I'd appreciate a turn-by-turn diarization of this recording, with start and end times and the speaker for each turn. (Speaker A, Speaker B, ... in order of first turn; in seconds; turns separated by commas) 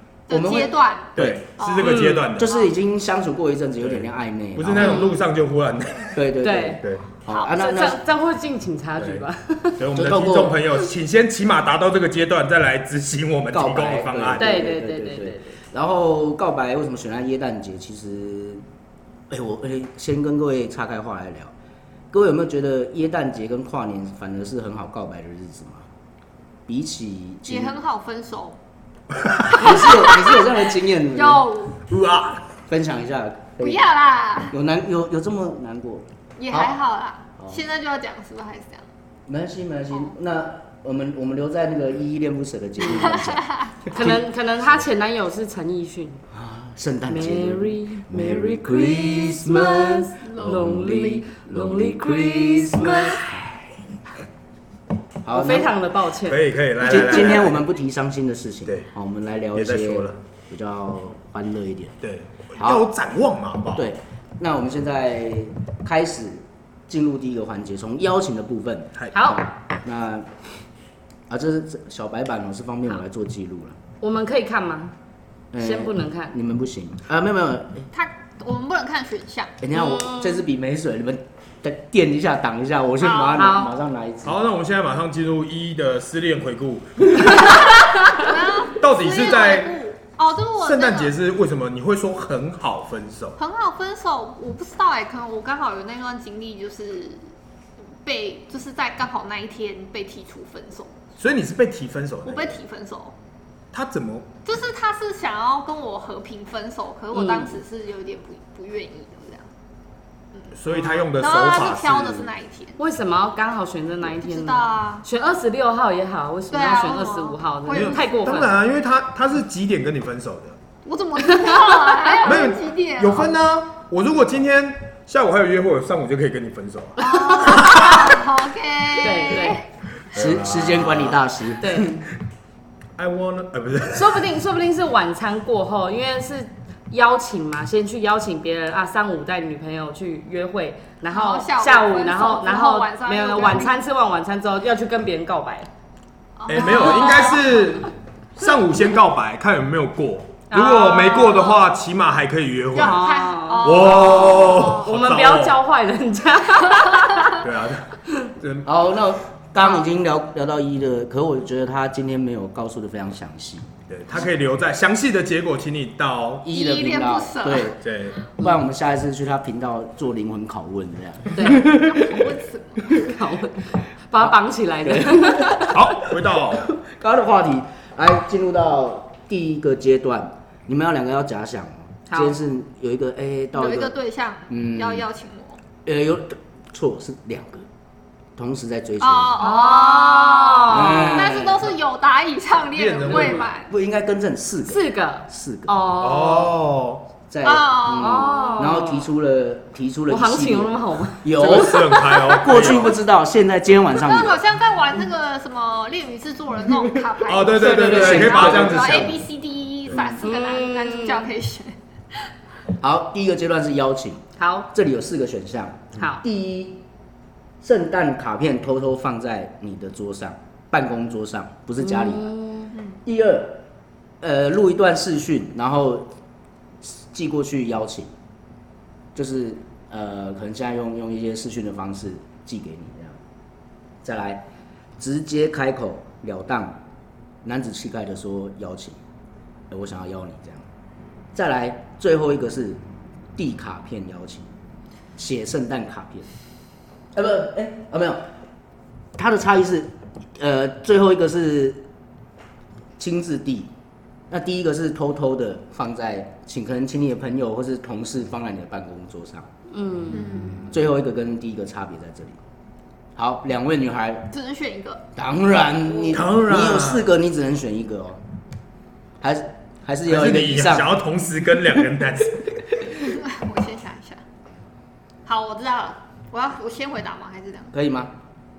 Speaker A: 0.3-2.7, Speaker B: 0.3-1.5, Speaker C: 1.1-2.5, Speaker D: 1.8-2.3, Speaker B: 2.4-5.0, Speaker C: 3.8-6.2, Speaker A: 4.8-5.1, Speaker D: 4.8-5.1, Speaker B: 6.2-8.0, Speaker D: 6.4-9.8, Speaker C: 9.0-9.2, Speaker C: 9.8-14.6, Speaker B: 9.9-10.7, Speaker B: 13.5-18.6, Speaker D: 14.4-15.6, Speaker B: 19.3-21.5, Speaker B: 22.1-25.9, Speaker B: 26.7-27.8, Speaker A: 27.5-28.6, Speaker C: 29.2-29.7, Speaker A: 29.5-31.8, Speaker B: 29.5-31.5, Speaker C: 31.9-32.5, Speaker B: 32.7-33.8, Speaker A: 33.6-34.5, Speaker B: 34.5-36.7, Speaker A: 36.4-38.9, Speaker B: 39.3-44.2, Speaker A: 43.1-43.7, Speaker D: 43.9-46.2, Speaker B: 46.3-53.7, Speaker D: 47.1-53.2, Speaker B: 55.2-55.7, Speaker D: 55.3-56.4, Speaker C: 56.3-57.6, Speaker B: 56.8-62.0, Speaker C: 59.5-60.2, Speaker C: 62.0-63.9, Speaker B: 62.6-62.9, Speaker B: 63.8-70.3, Speaker D: 69.1-69.4, Speaker B: 71.3-73.8, Speaker D: 74.0-74.9, Speaker B: 75.5-77.9, Speaker D: 75.6-76.3, Speaker A: 77.9-79.6, Speaker B: 79.6-84.4, Speaker D: 79.7-80.4, Speaker A: 83.0-83.6, Speaker D: 83.4-83.7, Speaker C: 84.2-89.8, Speaker A: 87.4-91.2, Speaker C: 90.6-93.4, Speaker A: 93.4-97.3, Speaker A: 98.0-101.0, Speaker C: 101.2-102.6, Speaker A: 102.2-103.2, Speaker C: 103.7-104.3, Speaker A: 104.5-109.5, Speaker D: 107.1-107.6, Speaker A: 110.4-112.8, Speaker C: 110.5-112.3, Speaker D: 112.8-118.6, Speaker A: 114.0-115.1, Speaker A: 116.5-118.1, Speaker C: 117.7-120.6, Speaker A: 120.8-123.3, Speaker D: 121.2-122.2, Speaker C: 122.2-128.2, Speaker A: 127.0-129.6, Speaker D: 127.1-127.6, Speaker D: 129.0-129.6, Speaker C: 130.1-131.2, Speaker B: 130.1-132.0, Speaker D: 131.6-132.0, Speaker C: 133.0-134.3, Speaker D: 133.9-145.7, Speaker A: 141.1-143.8, Speaker A: 146.4-147.7, Speaker C: 146.5-153.0, Speaker D: 146.5-147.4, Speaker D: 150.5-151.5, Speaker A: 151.1-151.6, Speaker A: 152.7-154.9, Speaker D: 152.8-157.4, Speaker C: 153.6-155.6, Speaker C: 157.3-158.7, Speaker B: 158.7-163.7, Speaker C: 163.9-166.4, Speaker B: 166.4-167.9, Speaker A: 166.5-167.8, Speaker C: 167.8-168.2, Speaker B: 168.4-172.3, Speaker D: 171.3-171.7, Speaker A: 171.5-173.1, Speaker D: 173.0-175.9, Speaker B: 174.2-175.8, Speaker C: 175.6-176.7, Speaker B: 176.3-183.9, Speaker D: 182.1-182.4, Speaker A: 183.6-185.6, Speaker B: 184.5-185.1, Speaker B: 185.8-187.7, Speaker B: 188.4-189.6, Speaker A: 189.0-193.7, Speaker D: 189.4-191.5, Speaker B: 190.7-191.7, Speaker C: 192.7-193.5, Speaker B: 193.7-195.8, Speaker D: 194.7-196.6, Speaker C: 196.0-197.1, Speaker B: 197.3-204.4, Speaker A: 197.4-198.7, Speaker D: 197.9-199.1, Speaker D: 200.1-202.4, Speaker C: 201.3-203.0, Speaker A: 203.9-211.7, Speaker C: 207.2-209.2, Speaker B: 207.5-209.2, Speaker D: 210.2-211.3, Speaker B: 212.8-216.8, Speaker D: 214.4-214.7, Speaker D: 216.0-216.2, Speaker B: 217.6-222.3, Speaker D: 221.8-222.7, Speaker B: 223.1-223.6, Speaker B: 224.2-226.1, Speaker B: 226.8-228.1, Speaker B: 229.2-233.2, Speaker B: 234.0-234.5, Speaker B: 235.0-236.8, Speaker B: 237.4-239.0, Speaker B: 239.7-240.7, Speaker B: 241.3-242.8, Speaker B: 243.4-244.5, Speaker B: 245.2-246.3, Speaker B: 247.1-248.2, Speaker B: 249.2-251.8, Speaker B: 253.0-253.7, Speaker B: 254.3-259.5, Speaker D: 259.7-260.6, Speaker A: 260.1-260.7, Speaker B: 260.6-262.4, Speaker B: 263.2-264.3, Speaker A: 264.3-265.1, Speaker B: 265.1-268.2, Speaker A: 265.9-266.2, Speaker C: 266.1-267.1, Speaker B: 269.2-270.9, Speaker C: 270.1-272.6, Speaker A: 272.9-274.2, Speaker A: 275.3-277.7, Speaker B: 277.7-278.1